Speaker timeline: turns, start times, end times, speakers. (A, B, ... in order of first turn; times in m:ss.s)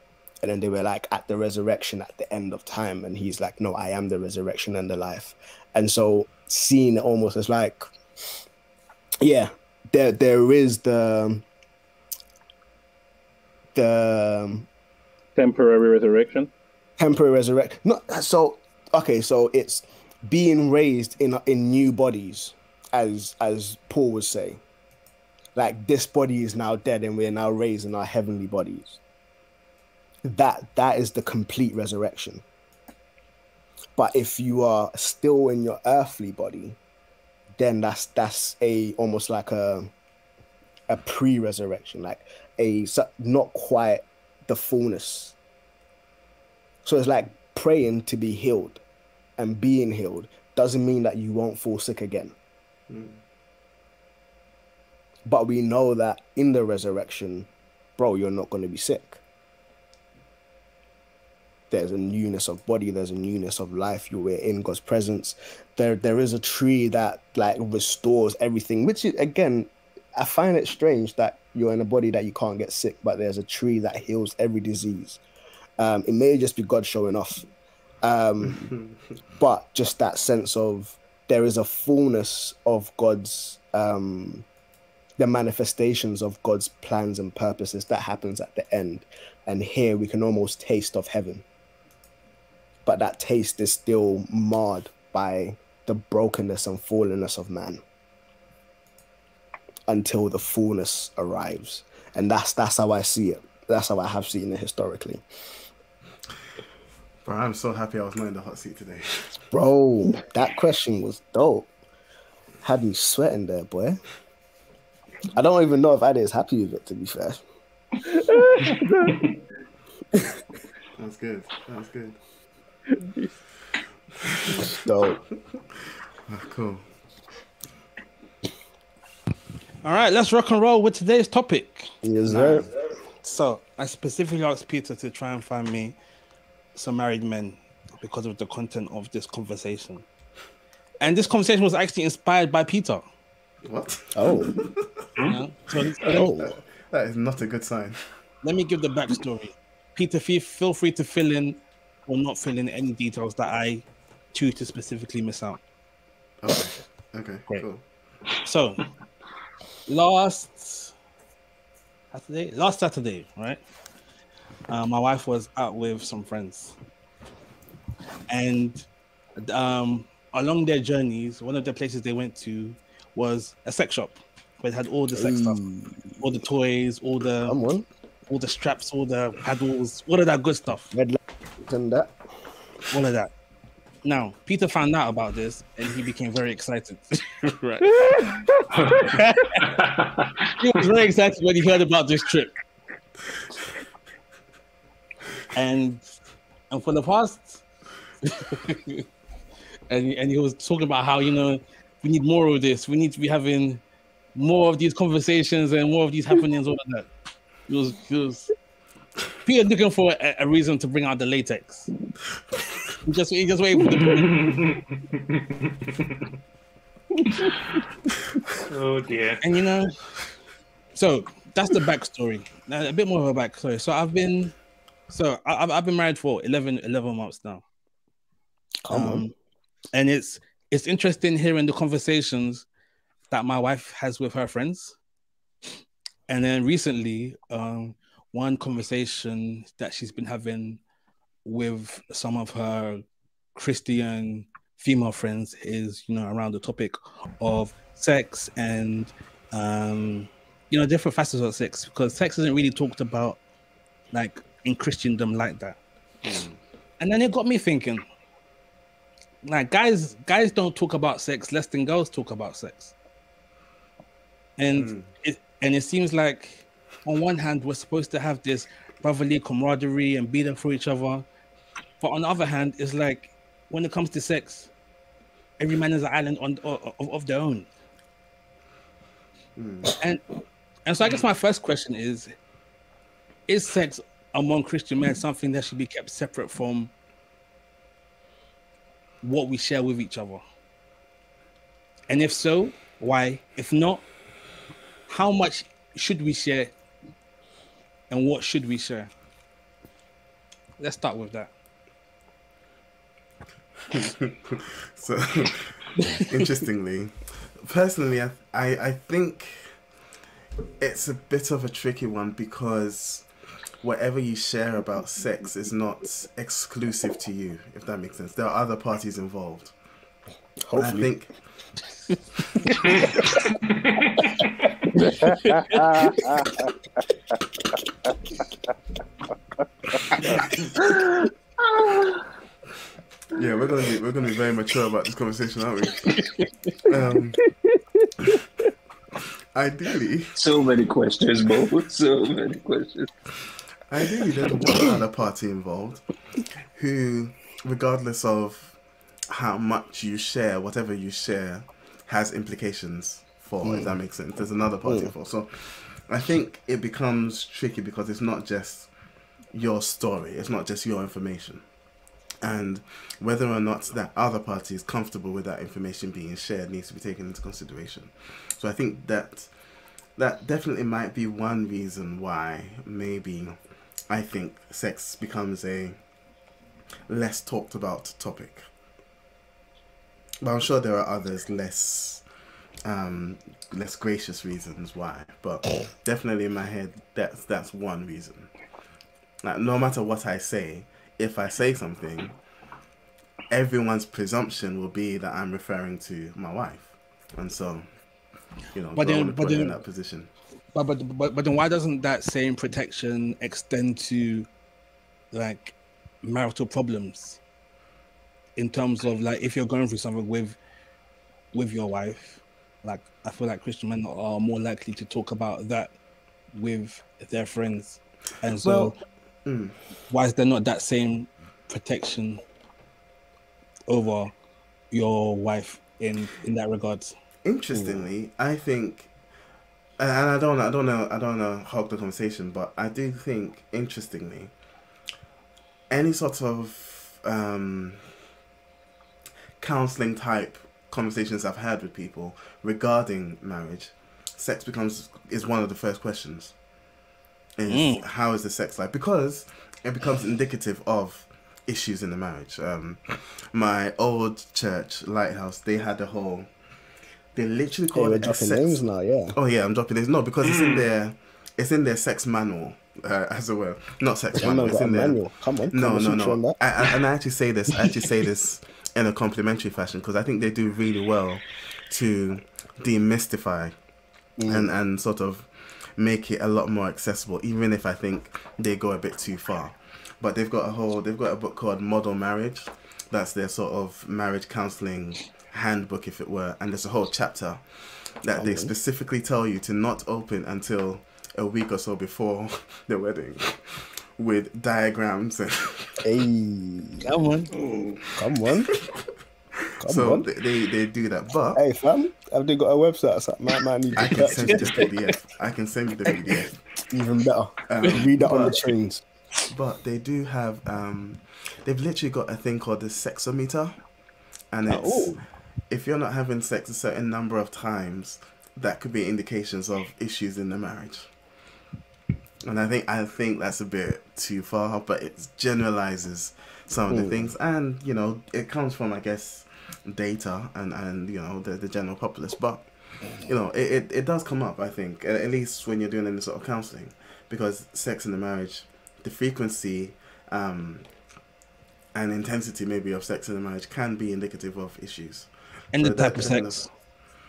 0:00.4-0:07.9 A
0:09.2-0:11.4 A
0:13.8-0:14.7 A
0:15.4-0:16.5 B
0:17.0-0:24.6 A
0:25.6-0:29.0 A
0:30.2-0:32.4 A
0:34.0-0:36.8 A
0:37.6-0:39.9 A
0:40.9-0:45.4 A
0:46.8-0:48.8 A
0:49.4-0:52.3 A
0:52.9-0:53.2 C
0:55.3-0:59.2 A
1:01.7-1:15.2 A
1:15.8-1:17.4 A
1:18.0-1:18.8 A
1:19.4-1:24.5 A
1:25.2-1:31.4 A
1:32.8-1:37.8 A
1:39.9-1:45.2 A
1:47.2-1:49.4 C
1:49.5-1:51.7 A
1:52.6-1:54.0 A
1:55.3-1:57.4 A
1:58.1-1:59.2 B
2:01.0-2:02.2 C
2:03.0-2:03.3 B
2:04.4-2:04.7 C
2:04.6-2:05.2 A
2:06.3-2:06.9 C
2:09.8-2:12.7 D
2:12.0-2:12.7 A
2:13.2-2:16.0 D
2:16.8-2:20.0 D
2:21.0-2:23.0 D
2:23.6-2:24.9 C
2:24.1-2:24.5 A
2:25.3-2:26.3 D
2:26.1-2:26.6 A
2:26.1-2:28.1 C
2:28.4-2:35.6 D
2:36.4-2:37.8 C
2:38.4-2:38.8 D
2:39.9-2:40.9 D
2:42.1-2:43.6 D
2:44.7-2:46.8 D
2:48.3-2:48.9 D
2:49.4-2:55.6 D
2:55.1-2:56.2 A
2:56.2-2:57.6 D
2:57.5-2:57.9 A
2:58.3-3:00.9 D
3:00.9-3:02.1 A
3:02.9-3:03.3 D
3:04.0-3:09.7 D
3:08.0-3:08.3 B
3:08.7-3:10.6 E
3:10.6-3:12.5 D
3:15.5-3:16.0 D
3:16.7-3:17.6 D
3:18.2-3:19.0 D
3:19.9-3:23.8 D
3:24.4-3:27.1 D
3:27.7-3:28.5 D
3:29.4-3:31.9 D
3:33.0-3:34.6 D
3:34.0-3:36.2 E
3:37.3-3:37.8 E
3:38.7-3:39.4 E
3:39.4-3:39.9 D
3:41.0-3:44.6 D
3:45.1-3:47.6 D
3:48.9-3:49.3 A
3:48.9-3:49.3 D
3:49.9-3:52.7 D
3:53.3-3:55.0 D
3:56.3-4:00.8 D
4:01.4-4:03.0 D
4:03.6-4:13.4 D
4:14.1-4:15.8 D
4:16.2-4:16.6 C
4:17.0-4:18.0 D
4:19.4-4:22.9 D
4:24.6-4:31.2 D
4:24.7-4:25.1 C
4:32.0-4:34.7 D
4:35.6-4:37.7 D
4:39.6-4:39.9 C
4:39.8-4:40.2 D
4:40.9-4:42.3 D
4:43.5-4:46.9 D
4:49.2-4:50.4 D
4:52.1-4:54.0 D
4:55.1-4:56.7 D
4:58.1-4:59.1 D
5:00.8-5:01.5 D
5:03.9-5:09.8 C
5:10.8-5:13.3 C
5:13.8-5:19.8 C
5:20.7-5:21.1 A
5:20.8-5:21.4 C
5:23.0-5:24.7 E
5:25.2-5:26.7 B
5:30.8-5:31.1 F
5:31.6-5:32.3 F
5:33.3-5:36.2 C
5:36.1-5:36.5 D
5:36.8-5:37.4 C
5:39.6-5:40.3 C
5:40.4-5:43.1 F
5:43.9-5:46.1 C
5:46.7-5:48.8 C
5:49.3-5:58.9 C
5:53.6-5:54.0 A
5:54.8-5:55.1 A
5:59.5-6:01.6 C
6:02.4-6:09.5 C
6:10.2-6:16.0 C
6:17.1-6:18.7 C
6:20.4-6:22.2 C
6:22.8-6:28.5 C
6:29.4-6:32.4 C
6:33.5-6:37.9 C
6:38.7-6:40.3 C
6:39.0-6:39.8 D
6:40.7-6:44.5 D
6:45.3-6:47.4 D
6:48.6-6:50.6 D
6:51.5-6:55.9 D
6:56.5-6:59.0 D
6:58.6-6:59.8 C
7:00.1-7:02.4 D
7:03.9-7:04.3 D
7:04.9-7:07.1 D
7:07.4-7:09.1 C
7:07.7-7:08.1 A
7:10.0-7:14.5 C
7:15.9-7:18.1 C
7:19.6-7:26.6 C
7:27.6-7:36.5 C
7:27.7-7:28.0 D
7:37.3-7:53.8 C
7:38.0-7:39.4 A
7:40.4-7:40.9 E
7:44.4-7:46.6 A
7:54.4-7:54.7 A
7:54.5-8:16.0 C
8:08.4-8:08.7 A
8:16.0-8:17.0 A
8:17.0-8:17.5 D
8:17.5-8:18.0 E
8:17.6-8:18.2 C
8:18.2-8:18.7 A
8:19.8-8:20.3 A
8:19.8-8:21.6 C
8:21.6-8:24.9 A
8:24.0-8:26.6 C
8:24.5-8:25.2 D
8:26.9-8:29.0 A
8:27.7-8:28.7 C
8:29.5-8:33.8 C
8:34.5-8:41.1 C
8:34.7-8:35.2 A
8:42.4-9:00.9 C
8:46.9-8:47.3 A
9:02.0-9:06.7 C
9:05.7-9:06.7 D